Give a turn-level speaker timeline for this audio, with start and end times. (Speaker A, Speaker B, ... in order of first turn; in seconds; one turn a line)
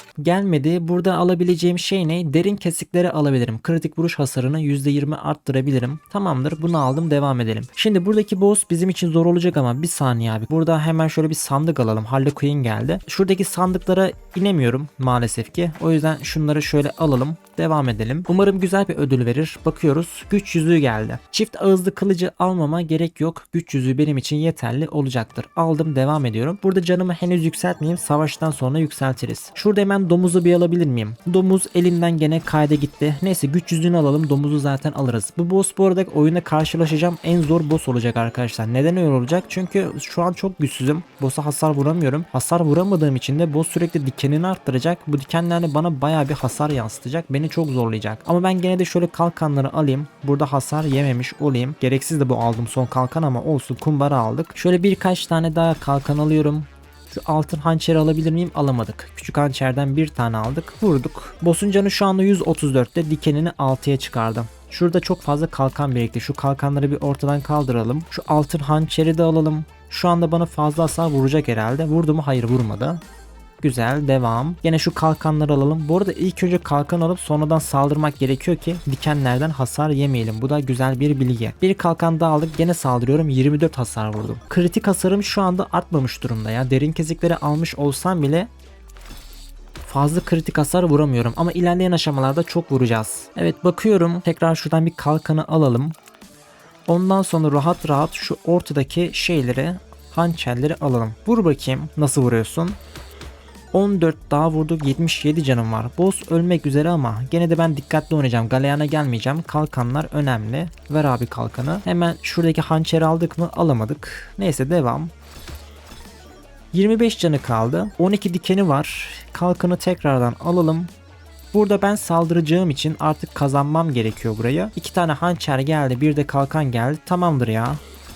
Speaker A: 0.2-73.0
Speaker A: 73.6-88.5
Speaker A: 89.8-96.0
Speaker A: 96.9-102.8
Speaker A: 103.7-115.1
Speaker A: 116.7-120.9
Speaker A: 121.5-127.8